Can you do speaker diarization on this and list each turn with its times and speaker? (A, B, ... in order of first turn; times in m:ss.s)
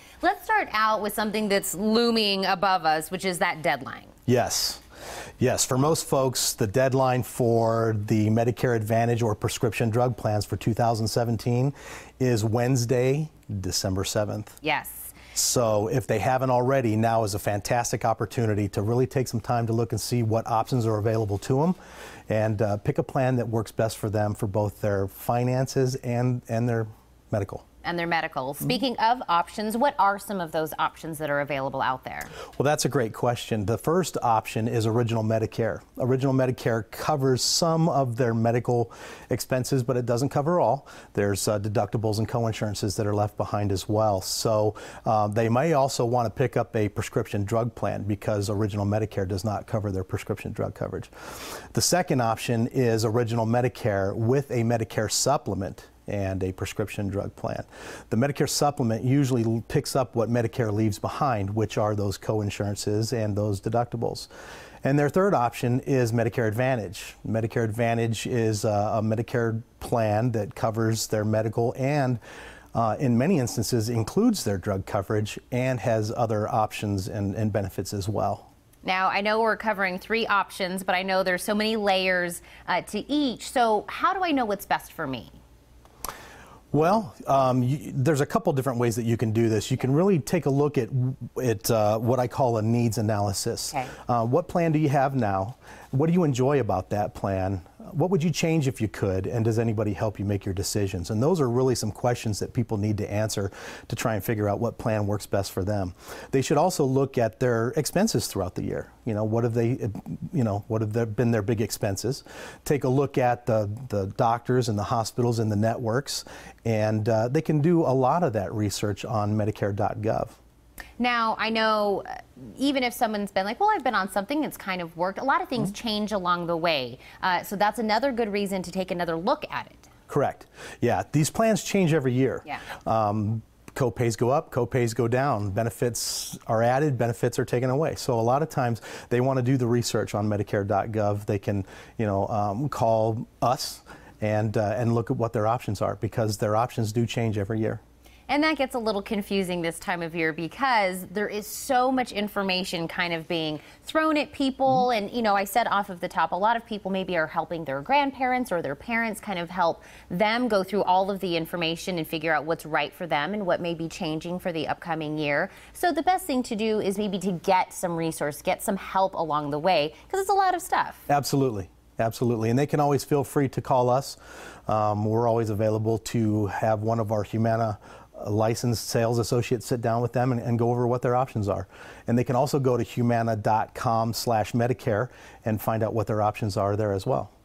0:00.2-0:04.1 A
0:04.3-0:04.8 B
0:05.4-0:14.6 B
0:14.6-0:15.2 A
0:15.4-0:21.8 B
0:22.3-0:27.6 B
0:27.8-0:32.3 A
0:32.6-1:04.3 B
1:04.8-1:12.2 B
1:12.7-1:18.5 B
1:18.8-1:25.4 A
1:26.7-2:00.4 B
2:01.0-2:09.9 A
2:10.1-2:27.8 B
2:28.3-2:51.0 A
2:51.1-3:07.3 B